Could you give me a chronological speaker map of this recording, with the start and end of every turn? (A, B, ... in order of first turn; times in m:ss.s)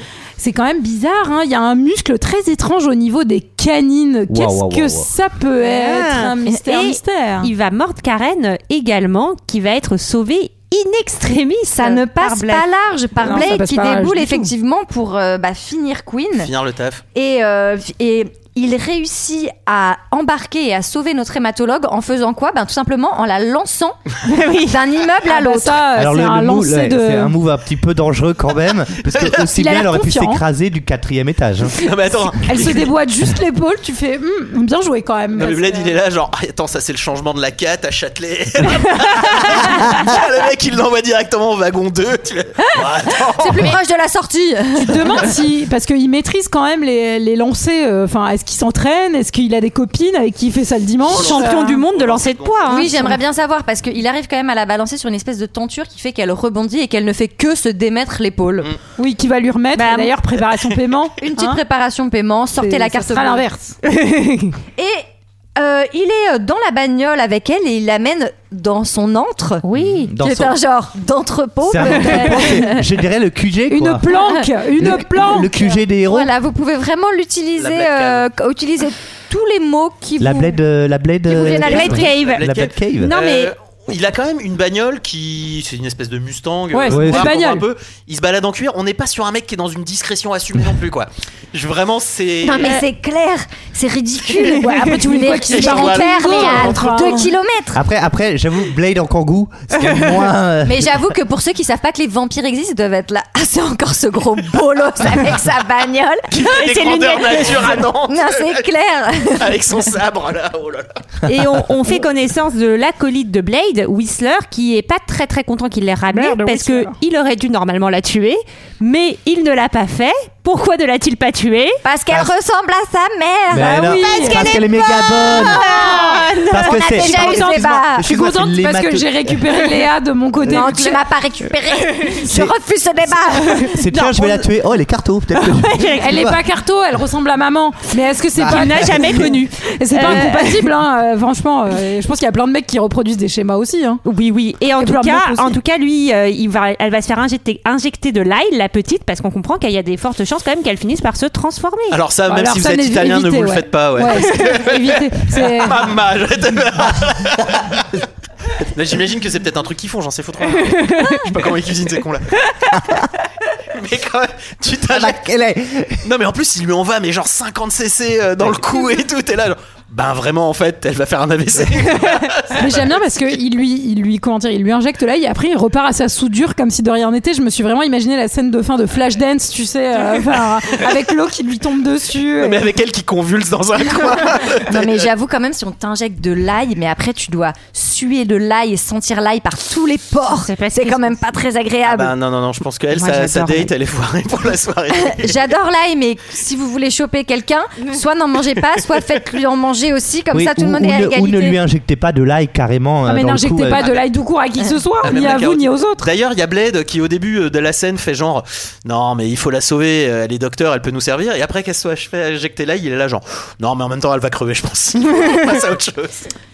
0:00.4-0:07.5 A
0:04.3-0:05.1 B
0:05.6-0:12.6 C
0:11.7-0:16.5 D
0:13.2-0:14.5 A
0:16.4-0:17.0 E
0:17.1-0:25.8 D
0:24.3-0:24.8 C
0:25.2-0:27.3 A
0:25.9-0:31.8 B
0:29.1-0:29.4 E
0:29.4-0:30.4 A
0:31.7-0:32.9 E
0:32.4-0:35.9 A
0:35.3-0:43.8 E
0:43.4-0:45.3 D
0:44.7-0:51.8 A
0:51.0-0:53.1 E
0:51.1-0:53.1 C
0:52.7-0:58.7 D
0:59.0-1:01.6 A
0:59.8-1:00.1 C
1:01.2-1:03.4 D
1:02.6-1:03.8 A
1:03.9-1:04.5 C
1:04.8-1:05.0 D
1:05.6-1:09.6 D
1:09.6-1:10.1 C
1:09.7-1:10.6 B
1:10.2-1:12.8 D
1:11.6-1:14.1 B
1:13.7-1:15.5 A
1:14.8-1:16.3 B
1:15.4-1:20.6 D
1:17.6-1:18.2 E
1:20.2-1:23.1 B
1:21.3-1:22.1 D
1:21.5-1:22.5 C
1:21.7-1:32.8 E
1:23.0-1:23.5 C
1:26.7-1:27.6 A
1:26.9-1:27.3 B
1:32.4-1:37.8 D
1:34.5-1:37.3 A
1:35.4-1:36.9 E
1:37.7-1:41.0 B
1:40.6-1:46.3 D
1:46.3-1:48.6 E
1:46.4-1:47.9 C
1:48.1-1:49.5 D
1:49.3-1:50.9 E
1:51.3-2:01.8 C
1:56.1-1:56.9 A
2:01.8-2:06.0 D
2:03.5-2:05.8 B
2:03.5-2:04.6 A
2:05.2-2:07.1 C
2:05.8-2:06.2 A
2:06.5-2:09.7 B
2:06.6-2:08.0 D
2:06.8-2:11.0 A
2:10.5-2:13.7 D
2:12.3-2:12.5 B
2:13.6-2:14.5 C
2:13.7-2:16.4 B
2:15.3-2:16.2 C
2:16.0-2:24.0 A
2:18.3-2:19.3 B
2:18.5-2:20.7 C
2:24.0-2:32.0 C
2:24.7-2:25.6 A
2:31.9-2:37.8 E
2:32.2-2:35.9 A
2:38.7-2:42.3 E
2:42.8-2:43.0 B
2:43.7-2:45.2 E
2:44.9-2:46.0 B
2:46.0-2:52.9 E
2:52.5-3:02.6 A
3:02.4-3:05.0 E
3:04.6-3:12.1 D
3:10.3-3:11.0 C
3:11.8-3:15.4 E
3:12.9-3:13.7 C
3:15.1-3:21.6 D
3:20.3-3:23.8 B
3:23.0-3:26.1 A
3:23.7-3:24.1 E
3:25.0-3:36.2 E